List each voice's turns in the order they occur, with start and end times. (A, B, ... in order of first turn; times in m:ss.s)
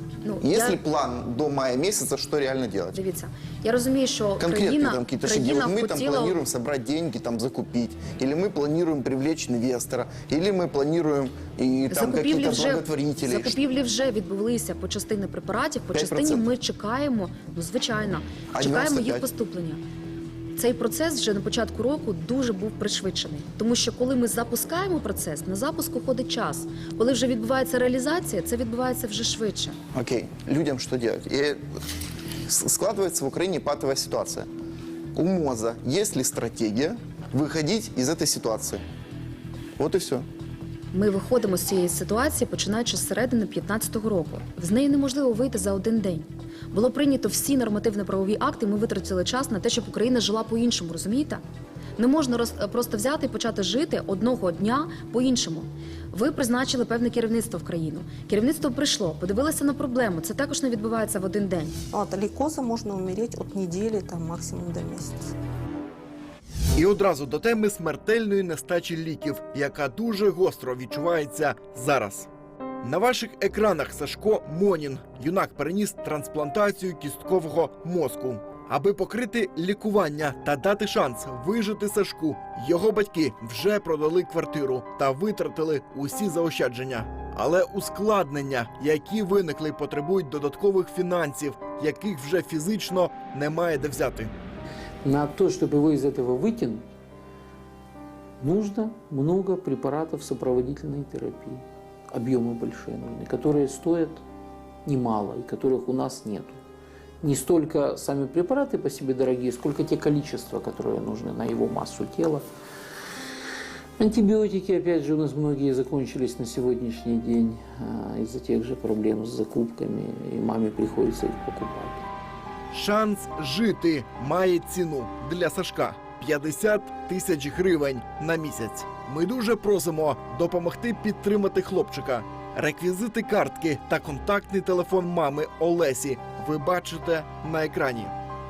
0:00.2-0:00.8 A
0:00.4-0:03.0 B
0:02.9-0:06.4 A
0:04.4-0:13.6 B
0:11.9-0:19.8 A
0:15.9-0:16.5 B
0:18.5-0:19.2 B
0:20.6-0:29.8 A
0:29.9-0:31.6 B
0:32.5-0:34.5 B
0:35.1-0:38.8 B
0:39.8-0:40.3 B
0:40.9-0:51.4 A
0:52.0-1:01.7 A
1:01.9-1:05.3 C
1:06.8-1:12.3 D
1:12.8-1:34.3 D
1:35.0-1:36.8 E
1:38.4-1:44.2 E
1:44.8-1:46.6 E
1:47.2-1:52.4 E
1:54.0-2:02.0 E
2:02.7-2:18.1 D